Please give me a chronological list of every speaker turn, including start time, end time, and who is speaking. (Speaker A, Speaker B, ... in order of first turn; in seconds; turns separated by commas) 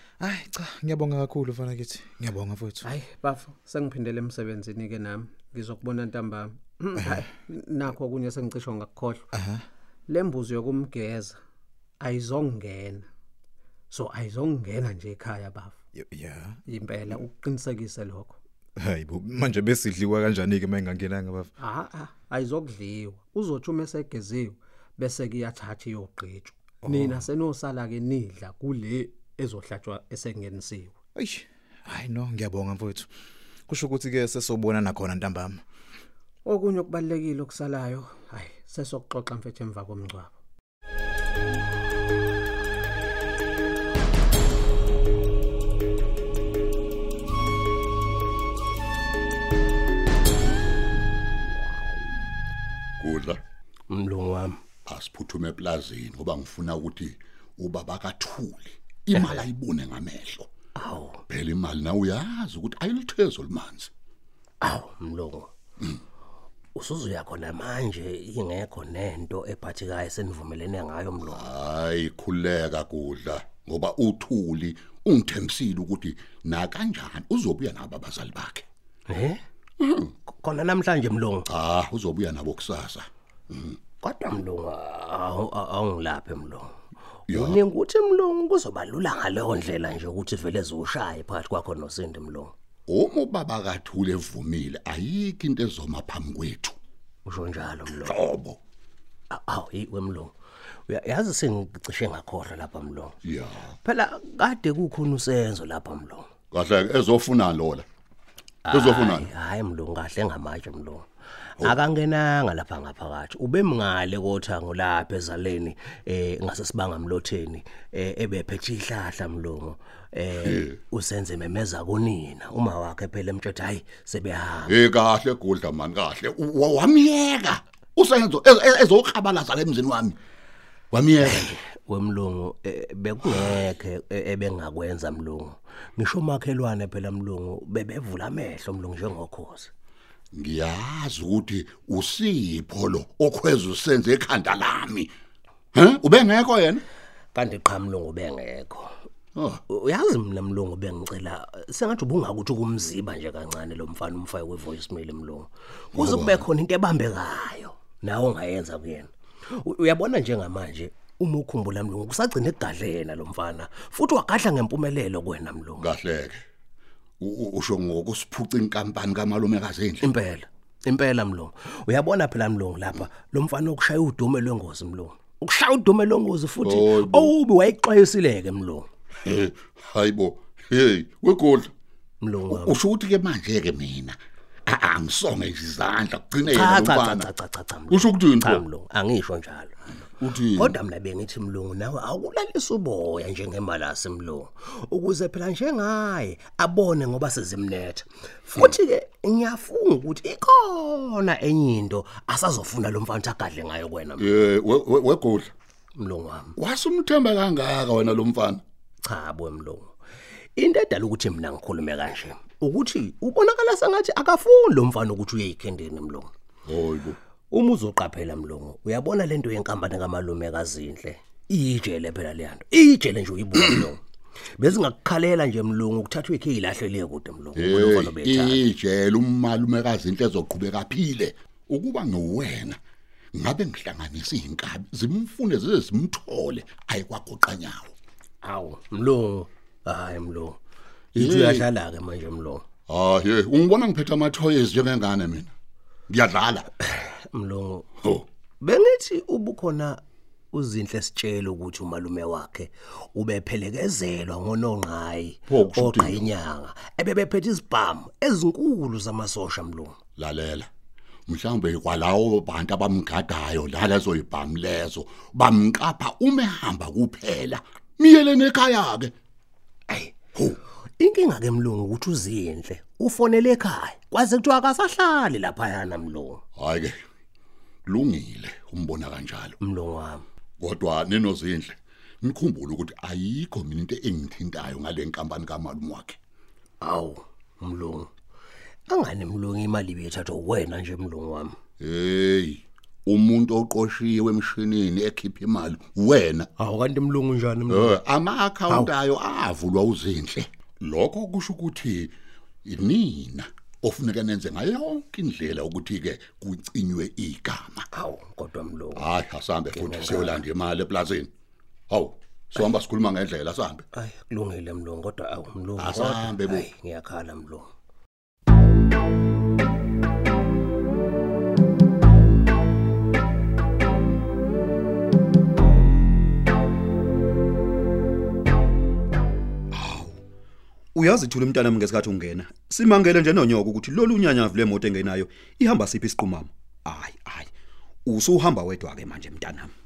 Speaker A: 0.2-2.9, Speaker B: 2.8-9.2, Speaker A: 9.3-9.6, Speaker B: 10.1-11.4, Speaker B: 12.0-13.0, Speaker B: 13.9-15.8, Speaker A: 15.9-16.6, Speaker B: 16.7-18.4, Speaker A: 18.8-21.5, Speaker B: 21.6-30.9, Speaker A: 26.8-27.3, Speaker A: 31.1-33.1, Speaker A: 33.7-35.6, Speaker B: 36.4-40.3, Speaker C: 53.0-53.4, Speaker D: 53.9-54.6, Speaker C: 54.9-60.5, Speaker D: 59.1-59.5, Speaker D: 60.8-61.2, Speaker C: 61.3-63.9, Speaker D: 64.6-65.5, Speaker D: 66.8-71.5, Speaker C: 71.2-78.6, Speaker D: 79.1-79.4, Speaker C: 79.8-80.1, Speaker D: 80.3-81.5, Speaker C: 81.5-83.8, Speaker D: 84.0-86.7, Speaker C: 87.3-87.6, Speaker D: 87.3-92.5, Speaker C: 92.9-96.8, Speaker D: 97.2-98.2, Speaker C: 97.9-98.6, Speaker D: 99.3-100.3, Speaker D: 100.9-103.1, Speaker C: 103.2-103.7, Speaker D: 103.8-106.3, Speaker C: 106.5-107.8, Speaker D: 108.6-111.0, Speaker C: 108.7-109.3, Speaker D: 111.6-124.8, Speaker C: 120.3-120.7, Speaker C: 124.6-130.2, Speaker C: 130.9-131.5, Speaker D: 131.2-139.7, Speaker C: 133.2-133.6, Speaker C: 140.3-145.1, Speaker C: 145.7-146.8, Speaker D: 147.3-148.9, Speaker D: 149.7-165.8, Speaker C: 155.9-156.5, Speaker C: 165.8-166.4, Speaker C: 167.2-170.1, Speaker D: 170.0-178.9, Speaker C: 176.6-177.3, Speaker C: 179.2-181.7, Speaker D: 182.2-182.8, Speaker C: 182.5-184.2, Speaker C: 184.7-187.3, Speaker D: 186.4-189.8, Speaker C: 187.9-188.7, Speaker C: 190.2-190.7, Speaker D: 190.5-204.5, Speaker C: 204.2-205.5, Speaker D: 206.0-206.5, Speaker C: 206.6-208.6, Speaker D: 209.0-209.9, Speaker D: 210.6-216.3, Speaker C: 216.7-217.2, Speaker D: 217.5-224.0, Speaker D: 224.6-228.7, Speaker C: 227.6-232.8, Speaker C: 233.3-237.9, Speaker D: 238.4-240.6, Speaker C: 241.1-241.7, Speaker D: 241.1-242.7, Speaker C: 242.9-245.5, Speaker C: 246.1-246.7, Speaker D: 246.9-247.8, Speaker D: 248.6-250.0, Speaker D: 250.5-260.0, Speaker C: 255.5-256.3, Speaker C: 260.2-260.7, Speaker C: 261.3-269.1, Speaker D: 269.9-270.1, Speaker D: 271.0-276.4, Speaker C: 276.6-276.9, Speaker C: 277.9-279.6, Speaker D: 279.6-280.2, Speaker C: 280.6-286.2, Speaker D: 286.8-288.1, Speaker D: 288.9-291.6, Speaker C: 291.8-296.5, Speaker D: 296.6-298.0, Speaker C: 297.7-302.1, Speaker C: 302.6-307.8, Speaker D: 307.9-309.1, Speaker C: 308.9-311.3, Speaker D: 309.7-310.4, Speaker C: 311.9-313.8, Speaker D: 313.9-317.7, Speaker C: 315.8-316.7, Speaker E: 329.7-330.2, Speaker E: 330.9-337.5, Speaker E: 338.1-339.7